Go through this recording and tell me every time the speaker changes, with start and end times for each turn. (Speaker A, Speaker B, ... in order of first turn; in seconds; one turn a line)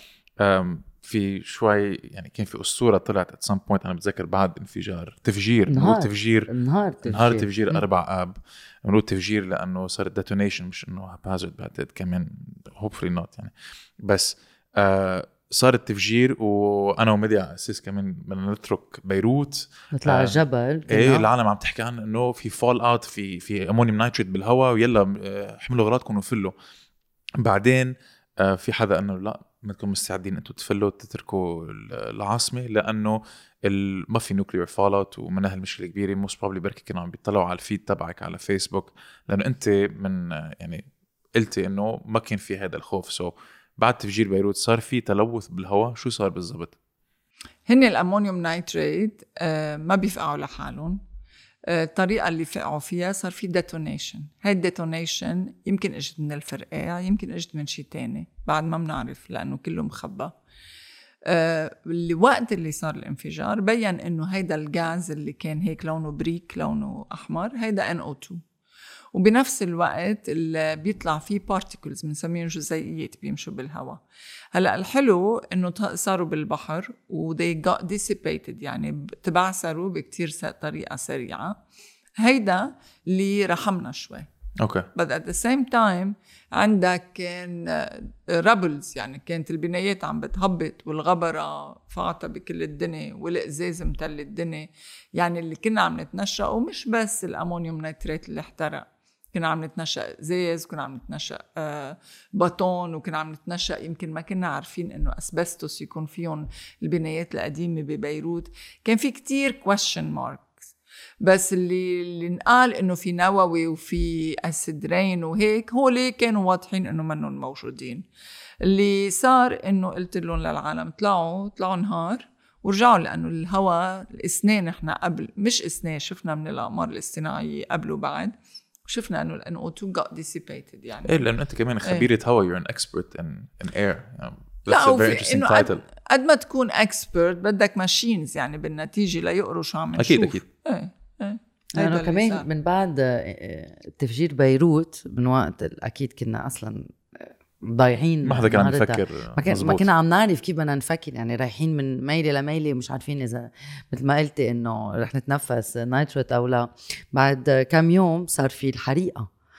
Speaker A: 0.4-6.5
Speaker B: 5.7-7.8
Speaker A: 7.0-26.5
Speaker B: 19.9-21.3
Speaker A: 27.4-40.9
Speaker A: 41.4-46.8
Speaker C: 47.7-51.0
Speaker C: 51.7-60.3
Speaker C: 61.3-68.4
Speaker C: 69.1-74.0
Speaker C: 74.5-81.6
Speaker C: 82.2-84.3
Speaker A: 84.6-84.9
Speaker C: 85.0-110.5
Speaker C: 111.2-118.1
Speaker C: 118.6-128.3
Speaker C: 128.9-131.3
Speaker A: 131.1-135.8
Speaker C: 134.7-142.5
Speaker A: 140.0-140.4
Speaker B: 141.8-159.3
Speaker A: 148.2-149.9